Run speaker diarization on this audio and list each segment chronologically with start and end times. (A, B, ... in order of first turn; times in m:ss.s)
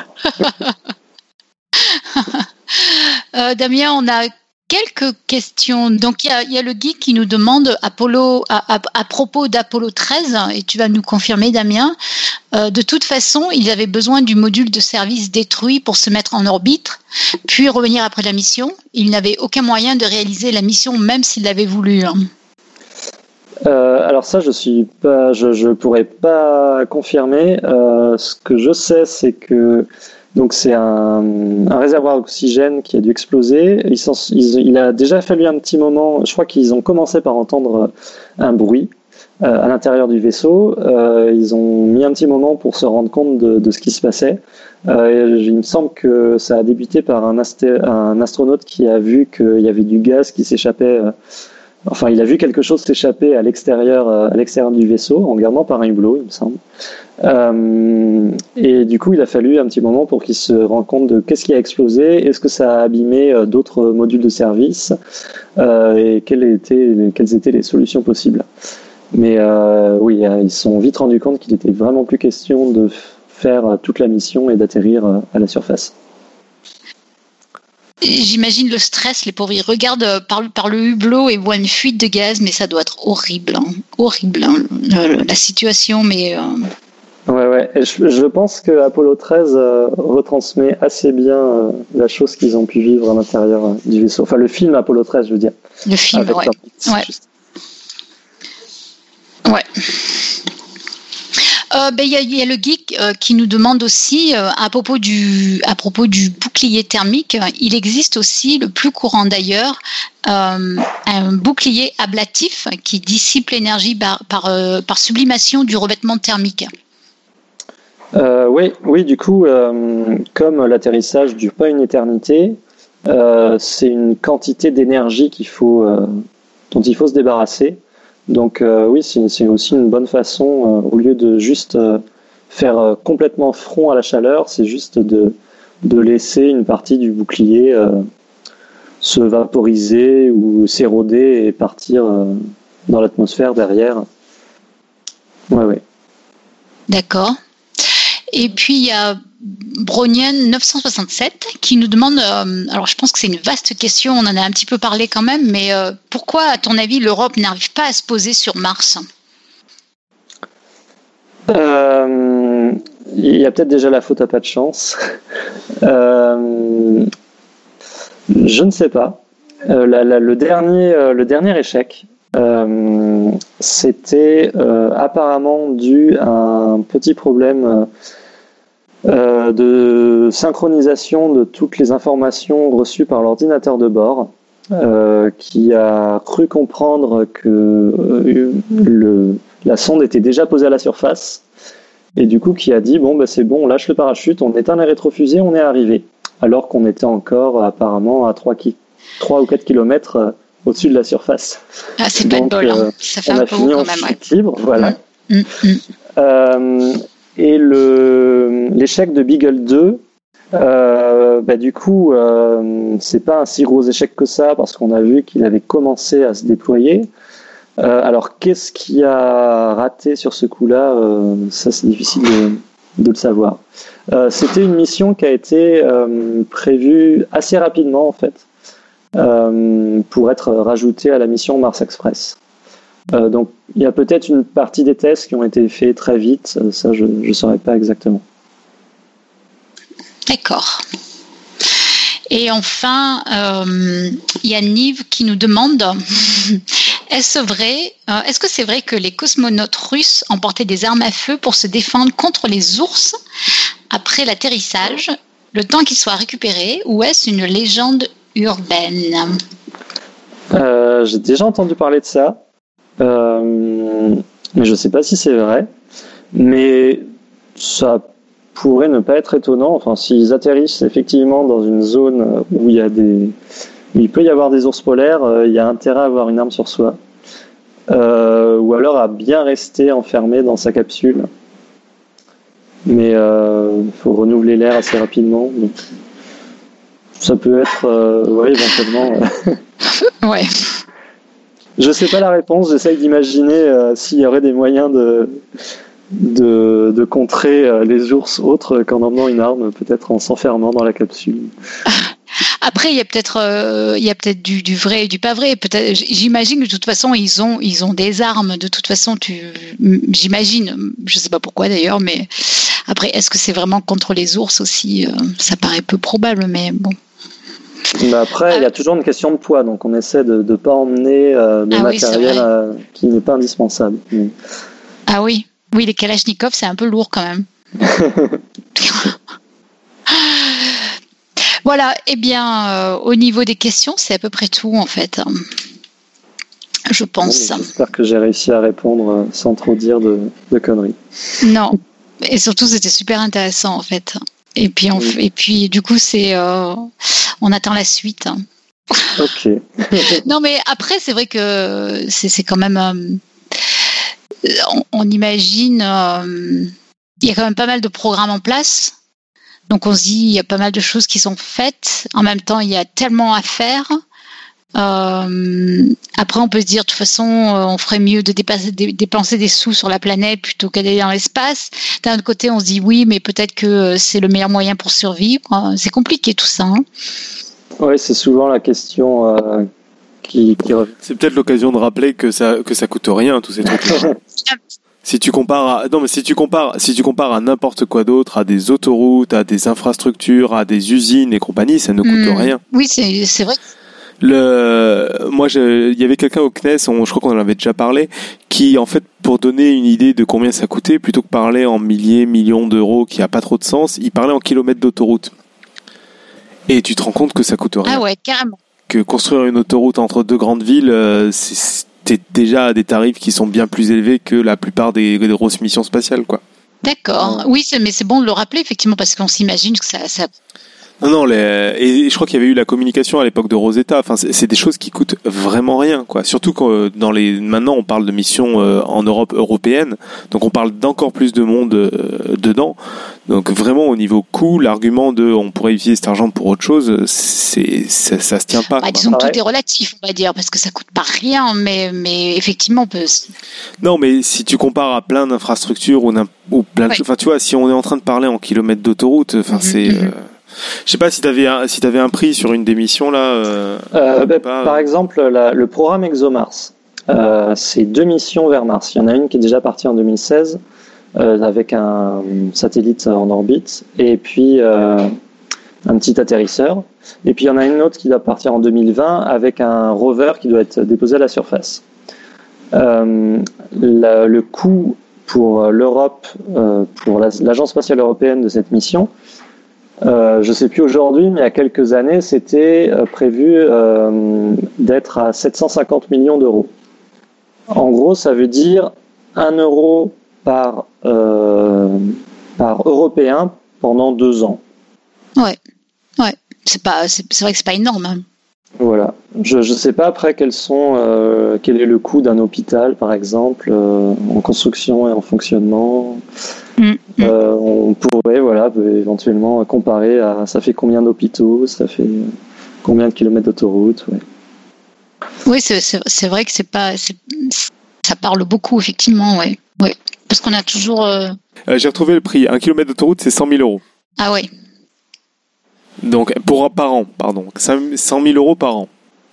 0:01.8-0:12.0 A
0:12.5-0:22.2 A
0:23.6-0:51.1 B
0:51.9-0:56.6 B
0:57.2-1:05.0 B
1:05.6-1:08.4 B
1:09.1-1:15.9 B
1:18.0-1:26.7 A
1:27.3-1:35.6 B
1:35.9-1:37.1 A
1:36.1-1:37.2 B
1:39.4-1:40.3 A
1:41.7-1:56.7 A
1:58.1-2:06.1 B
2:06.7-2:12.0 B
2:12.5-2:18.0 B
2:19.0-2:24.0 B
2:25.5-2:25.8 B
2:26.9-2:27.4 A
2:28.3-2:39.0 A
2:41.5-2:45.0 B
2:45.8-2:47.1 B
2:48.3-2:57.9 B
2:59.1-3:11.4 B
3:12.2-3:21.6 B
3:22.0-3:24.2 A
3:22.2-3:25.0 B
3:24.8-3:25.8 A
3:26.2-3:30.0 B
3:30.5-3:37.1 B
3:37.8-3:48.4 B
3:49.2-3:52.4 B
3:53.1-3:58.2 B
4:00.3-4:00.8 A
4:02.3-4:13.2 A
4:13.9-4:19.4 A
4:20.5-4:22.4 B
4:23.0-4:25.7 B
4:26.3-4:27.0 B
4:27.6-4:33.4 B
4:33.9-4:37.0 B
4:37.9-4:41.3 B
4:42.9-4:45.8 B
4:47.2-4:49.6 B
4:50.1-4:50.7 A
4:51.8-4:55.4 B
4:56.1-5:01.5 B
5:02.6-5:17.0 A
5:17.9-5:24.3 B
5:21.7-5:22.5 A
5:25.1-5:27.5 A
5:27.8-5:28.4 B
5:28.8-5:29.1 A
5:30.1-5:30.9 A
5:31.6-5:35.4 A
5:36.9-5:37.7 A
5:37.2-5:41.0 B
5:41.4-5:48.4 A
5:49.2-5:50.2 B
5:50.0-5:53.2 A
5:54.4-5:56.7 A
5:57.2-5:58.9 A
5:59.7-6:04.0 A
6:04.8-6:16.8 A
6:17.8-6:19.7 B
6:20.2-6:20.9 B
6:21.0-6:24.2 C
6:25.0-6:32.6 C
6:32.0-6:33.6 A
6:34.2-6:45.3 C
6:46.7-6:48.0 C
6:47.8-6:48.6 A
6:48.9-6:56.4 C
6:56.8-7:00.3 A
7:01.0-7:12.8 C
7:13.3-7:19.0 C
7:18.8-7:23.3 A
7:19.1-7:19.4 B
7:23.8-7:30.2 C
7:29.5-7:30.1 A
7:30.9-7:34.8 C
7:33.9-7:40.6 B
7:41.2-7:45.1 B
7:45.8-7:51.8 B
7:52.7-7:59.1 B
8:00.0-8:06.7 B
8:07.7-8:14.6 B
8:16.2-8:18.2 A
8:18.8-8:26.2 B
8:26.8-8:27.3 A
8:27.2-8:32.3 B
8:32.8-8:34.2 B
8:35.4-8:41.4 A
8:41.7-8:43.8 C
8:44.2-8:44.5 A
8:46.0-8:48.9 C